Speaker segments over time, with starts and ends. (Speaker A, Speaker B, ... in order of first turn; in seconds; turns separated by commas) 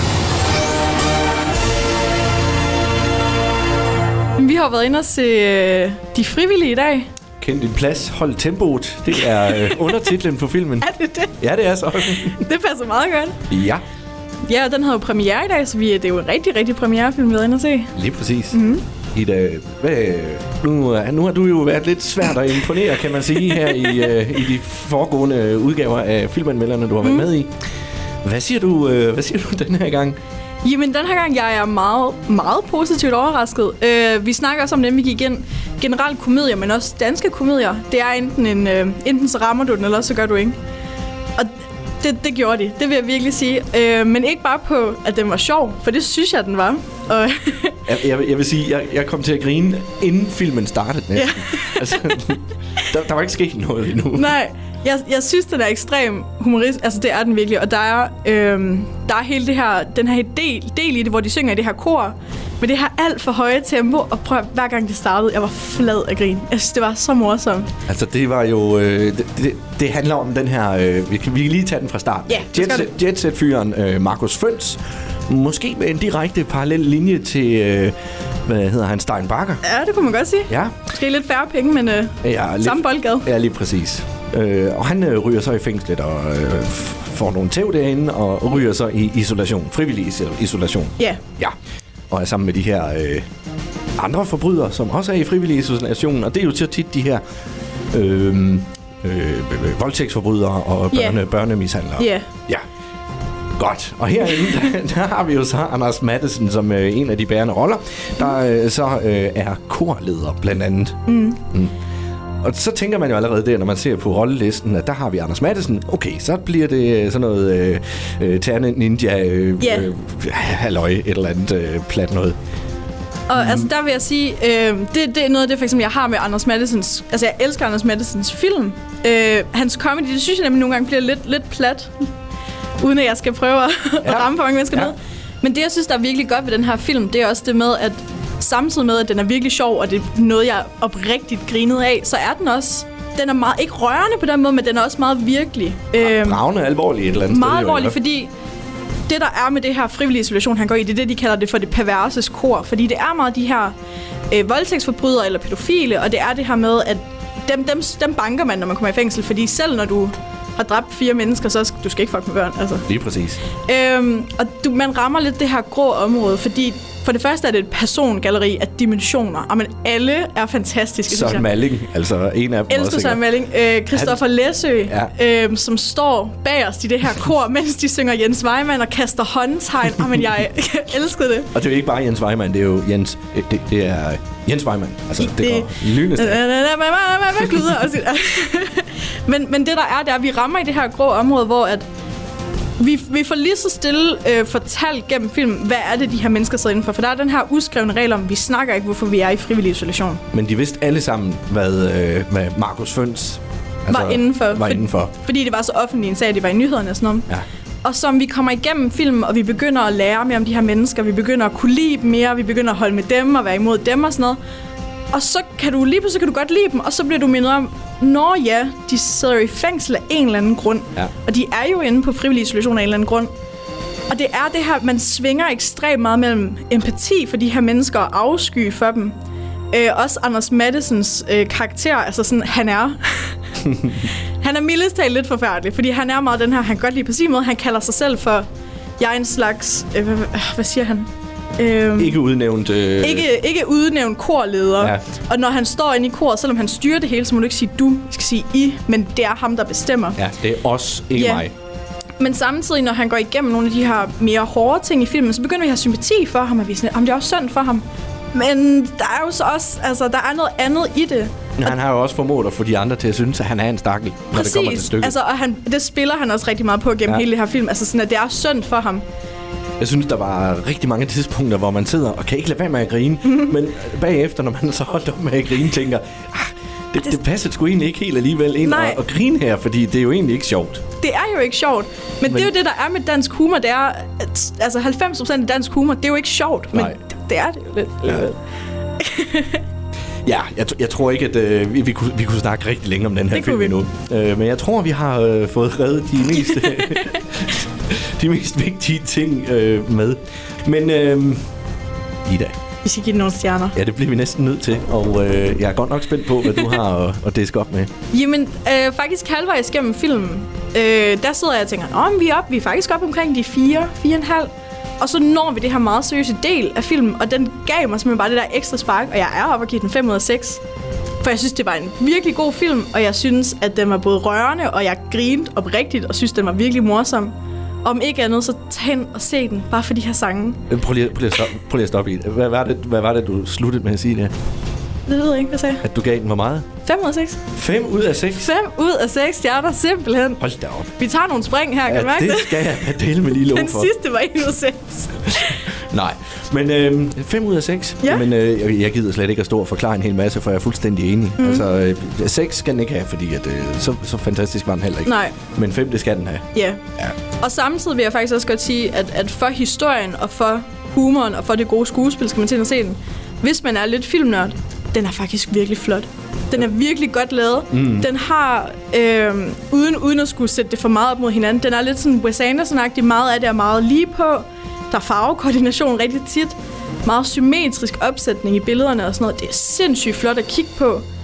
Speaker A: 4.4-7.1, Speaker B: 7.4-12.4, Speaker A: 9.5-9.8, Speaker A: 10.8-11.4, Speaker A: 12.2-13.4, Speaker B: 13.5-13.8, Speaker A: 14.4-17.9, Speaker B: 17.9-18.6, Speaker A: 18.5-18.8, Speaker B: 19.1-27.5, Speaker A: 27.0-27.3, Speaker B: 28.2-30.2, Speaker A: 30.6-40.6, Speaker A: 41.4-47.8, Speaker B: 47.9-54.3, Speaker A: 51.1-52.2, Speaker A: 54.1-67.7, Speaker B: 67.9-79.6, Speaker A: 72.3-72.9, Speaker A: 79.6-83.3, Speaker B: 80.5-80.7, Speaker B: 82.2-91.5, Speaker B: 92.1-93.2, Speaker B: 94.0-97.2, Speaker B: 97.9-102.6, Speaker A: 100.9-101.2, Speaker A: 102.0-102.3, Speaker B: 103.6-111.7, Speaker A: 111.1-111.4, Speaker B: 112.4-122.3, Speaker A: 119.6-119.9, Speaker A: 123.3-132.1, Speaker B: 123.3-123.7, Speaker A: 132.8-146.4, Speaker B: 134.0-134.9, Speaker B: 146.0-148.0, Speaker A: 147.3-148.3, Speaker A: 149.1-153.7, Speaker A: 154.3-162.9, Speaker B: 162.9-163.4, Speaker A: 163.6-171.5, Speaker B: 171.1-173.3, Speaker A: 172.7-181.5, Speaker B: 173.9-174.2, Speaker B: 181.5-186.4, Speaker A: 185.2-191.8, Speaker A: 192.8-200.2, Speaker B: 200.3-205.1, Speaker A: 203.9-207.3, Speaker A: 207.8-214.4, Speaker A: 215.1-223.3, Speaker A: 224.1-229.2, Speaker A: 229.7-233.3, Speaker A: 234.4-238.5, Speaker A: 239.0-242.2, Speaker B: 242.0-243.3, Speaker A: 243.0-250.2, Speaker B: 250.2-251.5, Speaker A: 251.1-251.4, Speaker A: 252.2-261.5, Speaker B: 261.6-265.1, Speaker A: 264.3-269.0, Speaker B: 269.8-280.8, Speaker A: 278.6-279.0, Speaker A: 281.0-288.4, Speaker A: 289.0-289.6, Speaker B: 290.2-301.4, Speaker A: 293.3-293.8, Speaker A: 296.6-297.1, Speaker B: 302.2-302.5, Speaker A: 302.8-303.8, Speaker B: 303.7-307.9, Speaker A: 308.1-320.6, Speaker A: 321.2-330.7, Speaker B: 330.7-334.3, Speaker A: 335.1-335.8, Speaker B: 335.8-336.7, Speaker A: 336.8-337.4, Speaker B: 337.5-338.5, Speaker A: 338.4-340.4, Speaker B: 340.4-340.9, Speaker A: 340.9-345.7, Speaker B: 341.9-343.9, Speaker B: 345.7-356.4, Speaker A: 351.4-351.6, Speaker A: 355.0-355.4, Speaker A: 356.5-356.8, Speaker A: 357.4-381.1, Speaker B: 367.7-368.1